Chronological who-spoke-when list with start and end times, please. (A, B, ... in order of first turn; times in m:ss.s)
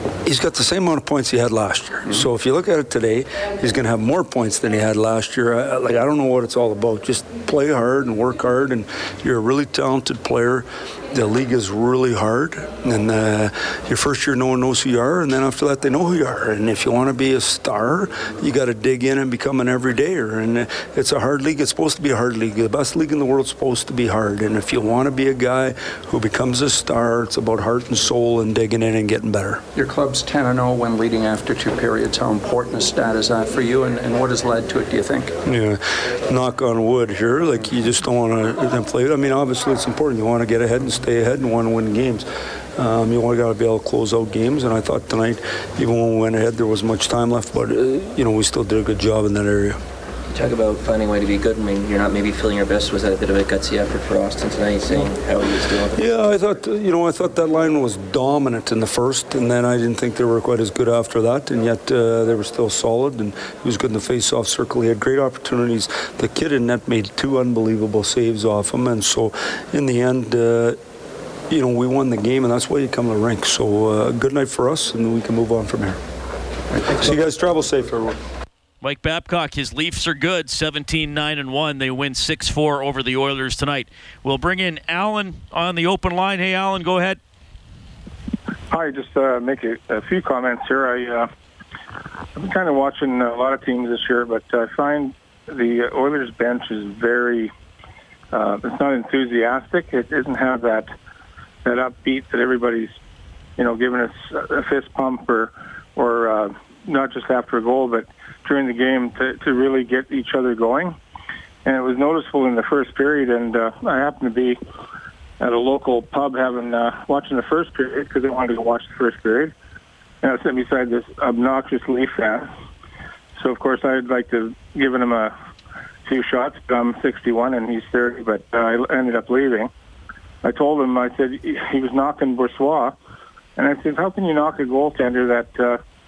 0:00.3-0:29.6 A
0:29.8-0:35.4 B
0:35.5-0:49.8 A
0:50.3-0:56.1 C
0:56.0-1:10.8 A
1:11.5-1:16.0 A
1:16.7-1:18.2 A
1:18.8-1:27.2 D
1:28.7-1:31.3 E
1:32.4-1:37.5 E
1:38.3-1:40.9 E
1:41.6-1:43.0 E
1:43.6-1:51.0 E
1:51.7-1:54.6 E
1:55.4-1:59.5 E
2:00.2-2:02.5 E
2:03.4-2:05.3 E
2:06.1-2:09.7 E
2:10.4-2:13.0 E
2:13.6-2:15.8 E